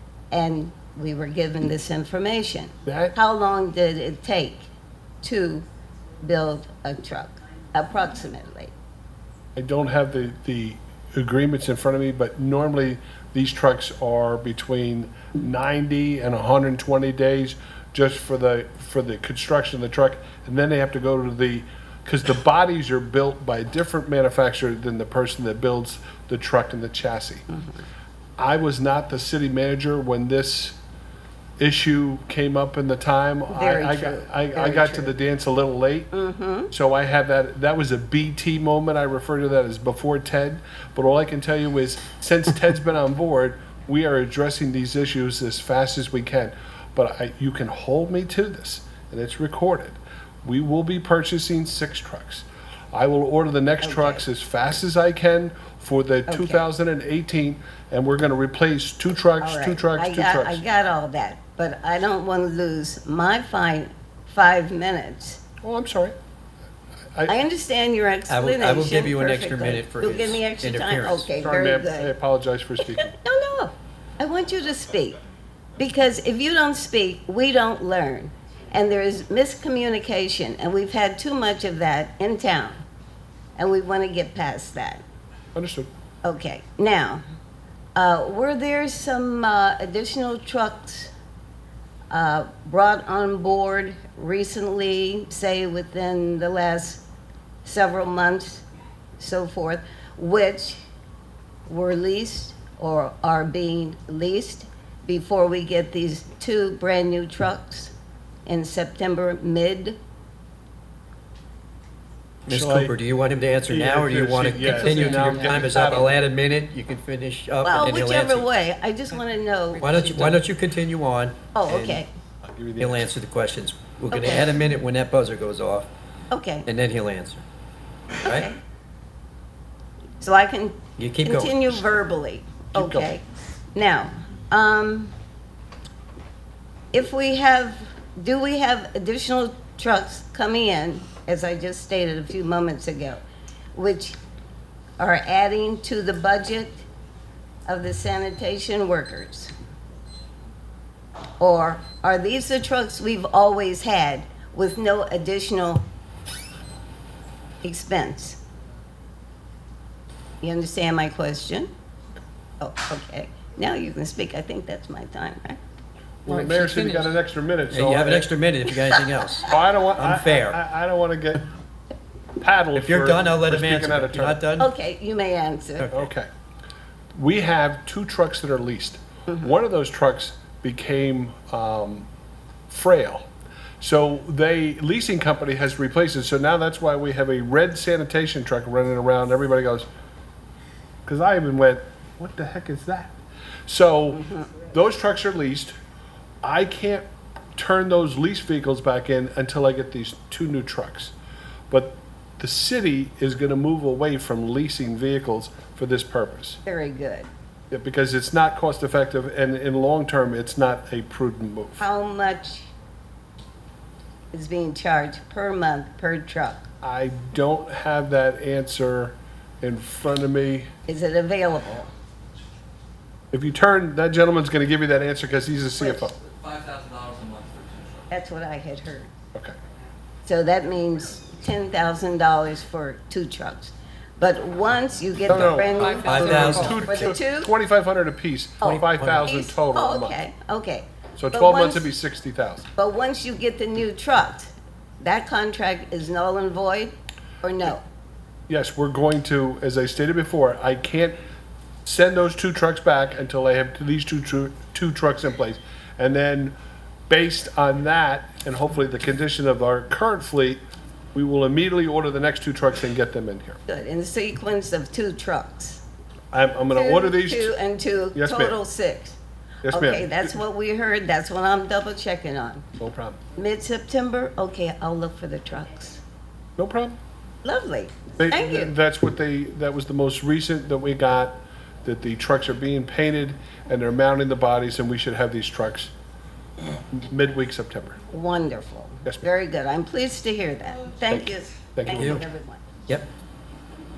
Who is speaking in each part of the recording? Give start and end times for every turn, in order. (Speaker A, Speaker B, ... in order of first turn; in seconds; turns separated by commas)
Speaker A: 0.3-4.7, Speaker B: 2.8-3.2, Speaker A: 5.2-5.6, Speaker A: 6.2-8.7, Speaker B: 9.6-27.4, Speaker A: 27.5-27.8, Speaker B: 28.4-30.8, Speaker B: 31.6-36.1, Speaker A: 33.5-35.1, Speaker A: 36.1-36.7, Speaker B: 36.7-60.6, Speaker A: 53.8-54.2, Speaker A: 56.3-56.6, Speaker A: 59.4-65.4, Speaker B: 65.6-66.1, Speaker A: 67.3-72.1, Speaker C: 68.3-71.3, Speaker B: 71.4-73.1, Speaker A: 72.9-75.2, Speaker A: 75.8-82.8, Speaker A: 83.5-85.0, Speaker B: 85.5-85.9, Speaker A: 86.2-87.2, Speaker A: 88.0-91.1, Speaker A: 92.1-97.0, Speaker A: 97.6-98.6, Speaker A: 99.2-100.8, Speaker A: 101.7-107.9, Speaker A: 108.5-110.0, Speaker C: 112.5-118.5, Speaker B: 112.5-112.9, Speaker B: 113.7-116.2, Speaker D: 115.2-115.6, Speaker A: 117.6-120.4, Speaker C: 119.8-122.0, Speaker A: 121.5-122.1, Speaker B: 122.4-123.1, Speaker C: 122.8-125.9, Speaker A: 124.1-124.5, Speaker A: 126.3-126.7, Speaker C: 126.7-127.4, Speaker C: 128.2-128.5, Speaker A: 128.2-128.6, Speaker A: 130.2-135.1, Speaker C: 131.0-131.8, Speaker A: 136.9-143.2, Speaker A: 143.7-144.2, Speaker A: 145.0-146.8, Speaker A: 147.7-149.5, Speaker A: 151.4-155.8, Speaker A: 157.6-158.4, Speaker A: 160.4-161.7, Speaker A: 162.6-165.6, Speaker B: 166.2-168.3, Speaker D: 166.3-167.1, Speaker C: 167.7-170.6, Speaker B: 169.4-171.4, Speaker B: 172.4-174.4, Speaker C: 172.8-174.7, Speaker A: 174.6-175.9, Speaker B: 175.9-176.3, Speaker B: 177.2-182.1, Speaker B: 182.7-183.3, Speaker B: 183.8-189.8, Speaker B: 191.1-193.2, Speaker B: 193.7-195.8, Speaker A: 194.2-194.5, Speaker B: 196.4-197.0, Speaker B: 197.6-201.1, Speaker B: 201.7-206.6, Speaker A: 206.7-207.3, Speaker B: 207.7-211.8, Speaker A: 211.8-212.7, Speaker A: 214.3-216.7, Speaker B: 216.8-220.7, Speaker A: 220.9-221.9, Speaker B: 223.3-226.2, Speaker A: 225.8-226.1, Speaker D: 226.2-228.1, Speaker A: 228.1-229.1, Speaker A: 230.2-237.5, Speaker B: 235.3-240.2, Speaker C: 235.3-237.1, Speaker D: 235.7-236.8, Speaker C: 238.6-239.3, Speaker A: 238.6-241.9, Speaker B: 241.2-242.7, Speaker A: 242.8-247.8, Speaker B: 248.5-251.2, Speaker B: 251.8-256.6, Speaker B: 257.1-260.6, Speaker B: 261.1-263.6, Speaker A: 263.7-265.8, Speaker B: 266.3-267.5, Speaker A: 266.7-269.2, Speaker B: 268.1-268.6, Speaker B: 269.6-270.4, Speaker A: 269.7-272.7, Speaker B: 272.8-273.2, Speaker A: 273.4-276.0, Speaker B: 276.6-277.0, Speaker A: 277.4-278.7, Speaker B: 278.2-285.9, Speaker B: 286.9-288.0, Speaker A: 288.1-292.6, Speaker B: 291.1-292.2, Speaker C: 291.9-292.2